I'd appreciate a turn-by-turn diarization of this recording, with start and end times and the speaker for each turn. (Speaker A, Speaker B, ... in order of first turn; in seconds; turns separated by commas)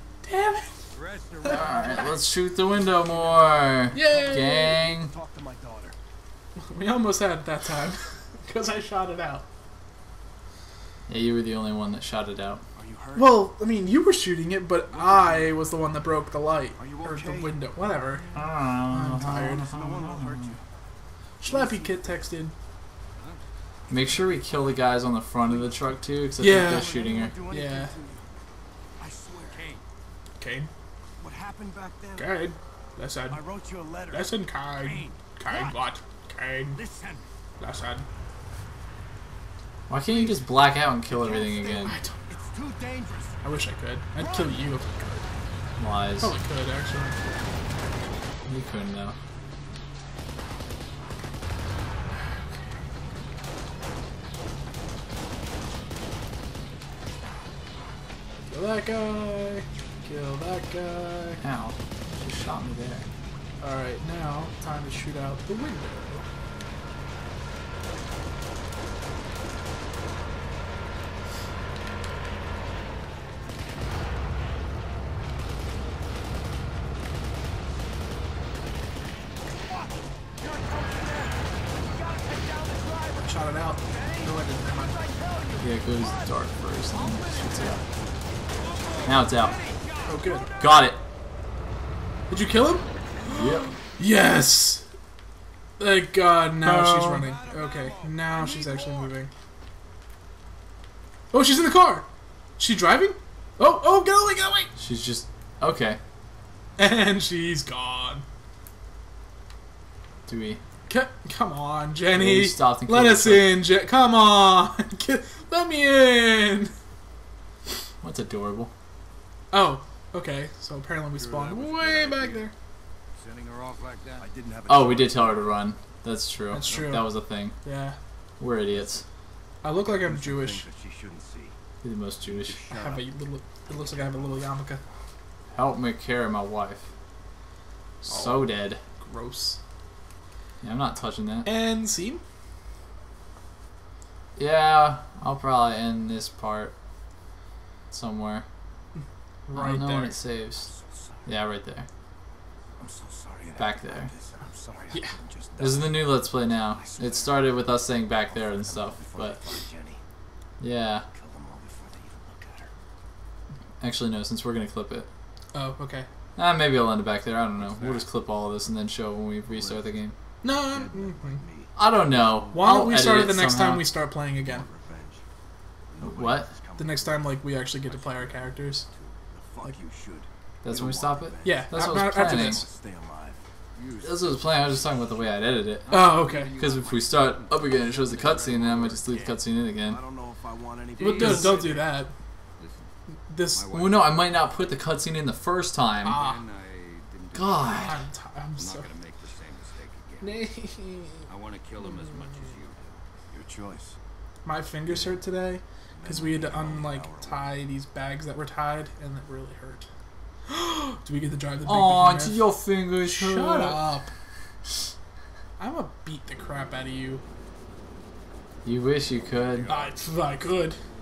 Speaker A: 0.2-0.7, Speaker B: 0.9-2.2, Speaker C: 1.4-5.1, Speaker A: 3.9-4.8, Speaker D: 4.0-5.9, Speaker A: 6.7-9.4, Speaker C: 11.1-12.6, Speaker D: 12.8-13.4, Speaker A: 13.1-18.3, Speaker D: 16.8-18.4, Speaker C: 18.3-20.6, Speaker A: 18.9-19.7, Speaker D: 19.2-20.6, Speaker A: 21.4-22.5, Speaker D: 21.4-22.2, Speaker C: 23.9-27.3, Speaker D: 23.9-24.5, Speaker D: 25.4-28.2, Speaker A: 26.4-27.9, Speaker D: 29.0-29.6, Speaker B: 29.5-29.8, Speaker A: 30.4-30.7, Speaker D: 31.2-32.4, Speaker A: 32.2-33.4, Speaker D: 33.3-34.3, Speaker A: 34.1-36.8, Speaker B: 34.8-35.1, Speaker B: 36.7-37.3, Speaker A: 37.6-38.0, Speaker C: 39.9-42.0, Speaker D: 41.2-43.4, Speaker A: 41.6-42.2, Speaker A: 43.4-45.2, Speaker C: 45.8-46.3, Speaker A: 46.2-47.4, Speaker C: 48.5-49.1, Speaker A: 58.5-61.4, Speaker C: 61.4-63.1, Speaker A: 63.6-66.2, Speaker D: 80.4-83.3, Speaker A: 83.2-85.1, Speaker D: 83.9-84.2, Speaker D: 84.9-86.3, Speaker C: 85.6-87.8, Speaker D: 86.9-88.0, Speaker D: 88.6-89.2, Speaker B: 88.6-89.7, Speaker C: 89.0-89.6, Speaker A: 90.0-90.5, Speaker C: 90.6-91.0, Speaker A: 92.3-94.8, Speaker C: 93.3-93.7, Speaker A: 95.8-99.3, Speaker C: 96.6-97.3, Speaker B: 98.2-98.7, Speaker A: 101.3-102.1, Speaker A: 102.6-104.7, Speaker C: 104.8-106.0, Speaker A: 106.8-108.2, Speaker C: 110.3-110.6, Speaker A: 110.9-116.7, Speaker C: 112.1-113.6, Speaker C: 118.0-118.7, Speaker A: 119.5-122.5, Speaker B: 121.4-122.2, Speaker B: 123.1-124.3, Speaker D: 124.2-125.6, Speaker C: 124.7-127.5, Speaker A: 126.5-128.0, Speaker C: 128.4-129.0, Speaker A: 129.6-130.7, Speaker D: 129.7-131.5, Speaker C: 131.8-132.6, Speaker D: 132.2-133.0, Speaker A: 132.7-134.8, Speaker D: 133.7-134.4, Speaker C: 135.5-136.9, Speaker C: 138.0-138.8, Speaker A: 138.1-139.6, Speaker C: 140.6-141.5, Speaker A: 141.4-142.2, Speaker C: 144.4-146.7, Speaker C: 147.9-148.4, Speaker A: 149.5-150.2, Speaker C: 149.5-150.7, Speaker D: 150.6-151.2, Speaker C: 151.2-151.9, Speaker D: 152.8-160.0, Speaker C: 153.6-154.1, Speaker A: 154.9-155.2, Speaker C: 155.6-159.4, Speaker C: 160.6-161.1, Speaker D: 161.1-162.7, Speaker C: 163.8-165.1, Speaker A: 165.5-166.1, Speaker C: 166.3-170.1, Speaker B: 167.6-168.0, Speaker D: 169.5-169.8, Speaker A: 170.4-171.4, Speaker D: 170.5-172.7, Speaker C: 171.8-173.9, Speaker A: 172.5-174.6, Speaker D: 174.4-175.2, Speaker D: 175.9-183.4, Speaker C: 176.0-176.5, Speaker A: 176.8-178.8, Speaker C: 180.6-182.6, Speaker A: 181.4-182.6, Speaker B: 183.8-184.8, Speaker C: 184.0-190.0, Speaker A: 185.9-186.6, Speaker B: 185.9-189.3, Speaker D: 189.7-191.8, Speaker A: 191.0-192.1, Speaker C: 191.1-191.5, Speaker B: 191.2-191.7, Speaker B: 192.6-192.9, Speaker A: 193.3-193.7, Speaker B: 193.5-194.7, Speaker C: 193.7-196.2, Speaker A: 196.0-196.4, Speaker B: 196.1-197.9, Speaker C: 197.3-198.0, Speaker A: 197.7-198.9, Speaker B: 198.6-200.4, Speaker A: 200.2-201.3, Speaker B: 201.3-203.0, Speaker D: 203.3-204.0, Speaker A: 204.4-209.9, Speaker D: 205.9-207.5, Speaker A: 210.5-212.5, Speaker C: 211.6-213.9, Speaker A: 213.0-214.1, Speaker A: 215.6-217.2, Speaker C: 218.6-219.7, Speaker B: 219.1-219.9, Speaker A: 219.7-220.8